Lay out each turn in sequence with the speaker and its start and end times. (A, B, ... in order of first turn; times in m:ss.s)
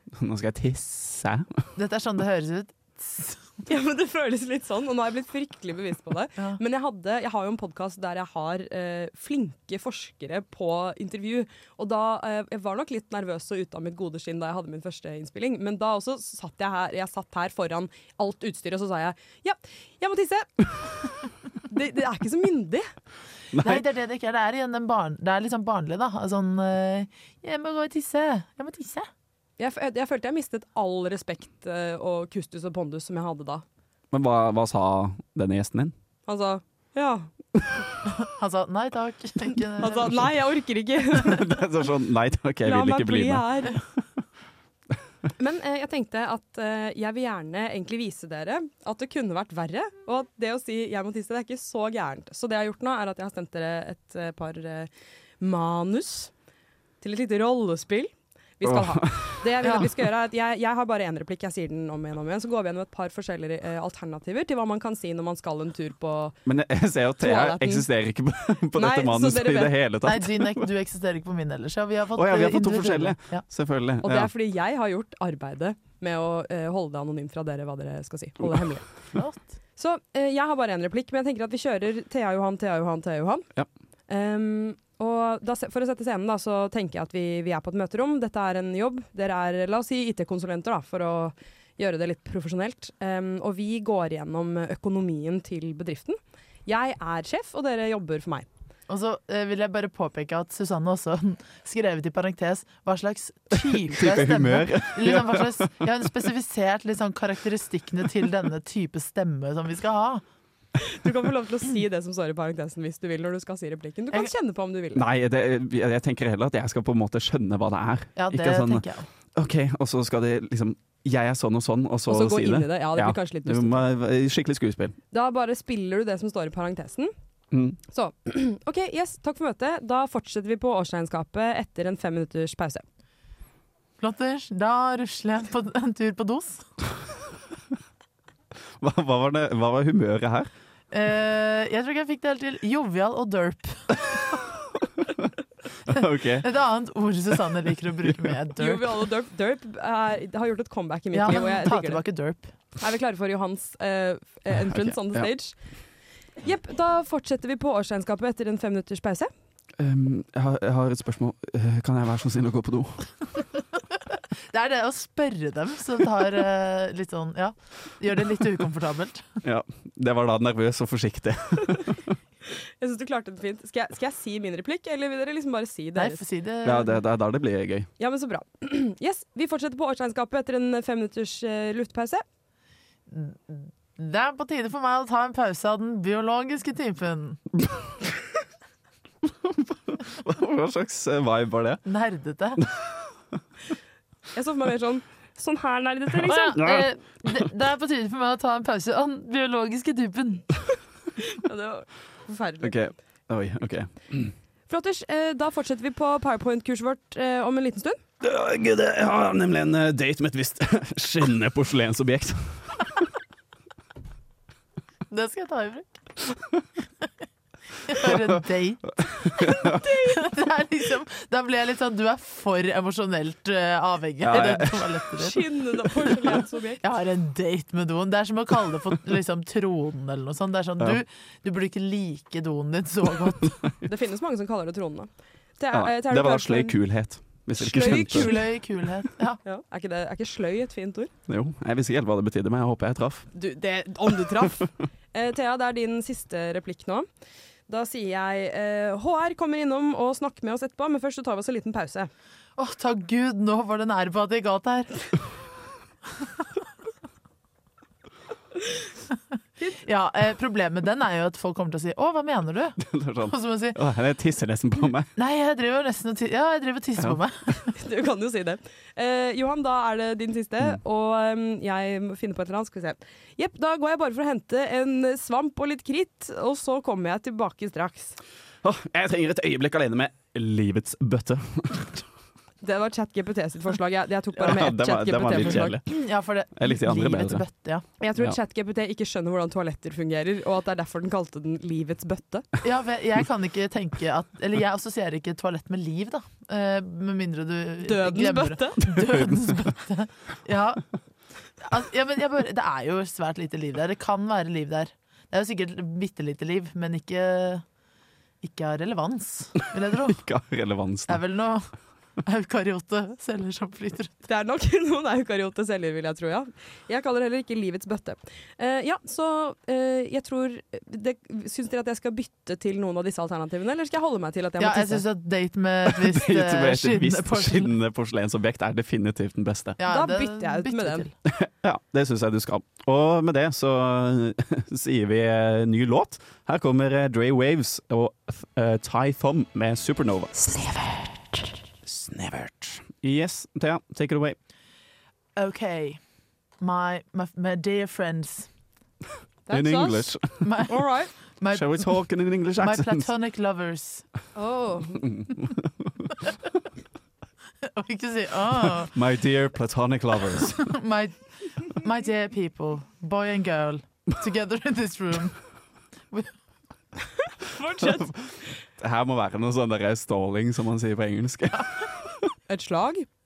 0:00.1-0:01.6 A
0:01.8-0:03.5 B
0:03.6-0:20.5 C
0:21.7-0:22.8 C
0:23.5-0:23.8 A
0:23.6-0:29.1 B
0:29.6-0:33.6 C
0:34.1-0:35.9 A
0:36.3-0:37.3 C
0:38.0-0:40.3 B
0:39.8-0:41.4 C
0:41.2-0:43.8 A
0:42.6-0:43.8 C
0:45.4-0:54.9 C
0:55.4-0:56.3 C
0:57.0-1:06.3 C
0:58.6-0:59.8 A
1:06.4-1:10.7 A
1:07.2-1:07.8 C
1:08.8-1:09.8 C
1:10.0-1:13.4 B
1:12.1-1:14.3 A
1:14.0-1:18.9 C
1:19.1-1:19.4 B
1:19.8-1:23.5 C
1:24.1-1:38.5 C
1:38.9-1:50.2 B
1:43.7-1:45.8 A
1:50.8-1:55.0 C
1:54.9-2:05.0 A
1:58.2-1:59.1 B
2:02.1-2:03.8 C
2:05.1-2:07.1 C
2:07.5-2:07.8 A
2:07.9-2:12.8 C
2:14.0-2:16.6 B
2:18.8-2:20.5 A
2:20.9-2:24.0 B
2:25.9-2:26.5 A
2:26.4-2:28.8 B
2:28.0-2:28.4 A
2:28.6-2:32.0 C
2:31.1-2:32.5 B
2:32.8-2:35.5 C
2:34.5-2:35.3 A
2:36.4-2:39.3 C
2:39.8-2:43.1 A
2:44.5-2:49.3 B
2:49.4-2:52.0 A
2:52.8-2:56.2 C
2:56.0-2:57.0 B
2:56.6-2:57.9 A
2:58.0-3:02.2 C
3:03.1-3:07.4 B
3:09.2-3:11.8 A
3:11.8-3:12.6 B
3:12.6-3:12.9 A
3:14.3-3:16.6 C
3:16.2-3:20.5 B
3:16.5-3:17.5 A
3:21.2-3:22.8 C
3:22.6-3:24.3 A
3:24.7-3:28.0 C
3:28.2-3:32.8 A
3:35.1-3:36.0 B
3:37.8-3:45.4 B
3:38.0-3:38.3 A
3:39.2-3:39.8 A
3:39.6-3:40.2 C
3:44.2-3:45.0 A
3:45.2-3:46.8 C
3:46.3-3:53.6 B
3:53.8-3:56.7 C
3:55.7-3:58.4 A
3:57.6-3:58.5 C
3:57.8-3:59.4 B
3:59.4-4:01.1 C
4:01.3-4:03.3 A
4:03.3-4:07.0 C
4:07.7-4:12.1 C
4:12.6-4:15.1 B
4:19.8-4:23.8 B
4:22.8-4:25.1 A
4:25.2-4:27.7 B
4:27.8-4:38.2 C
4:38.6-4:42.0 A
4:42.6-4:45.8 C
4:44.4-4:46.0 A
4:45.5-4:47.8 B
4:46.5-4:47.4 A
4:48.0-4:52.5 C
4:52.6-5:00.8 B
4:57.8-4:59.0 C
4:59.0-4:59.2 A
5:01.6-5:07.6 B
5:08.4-5:10.2 B
5:10.1-5:11.2 A
5:11.1-5:11.7 B
5:12.2-5:14.1 B
5:14.2-5:25.0 C
5:24.6-5:27.7 B
5:25.9-5:29.8 A
5:29.8-5:31.1 B
5:29.9-5:31.1 C
5:31.2-5:40.7 A
5:41.8-5:44.4 A
5:45.4-5:46.0 B
5:46.6-5:48.5 B
5:49.5-5:50.1 C
5:49.5-5:50.6 A
5:50.4-5:50.8 B
5:50.7-5:51.1 C
5:51.4-5:51.9 B
5:51.5-5:53.1 A
5:52.6-5:54.0 B
5:54.3-5:55.1 C
5:55.0-5:55.9 A
5:57.7-5:58.9 B
5:58.5-6:00.7 A
6:00.6-6:05.4 B
6:07.5-6:08.1 C
6:07.8-6:12.3 A
6:12.5-6:13.0 C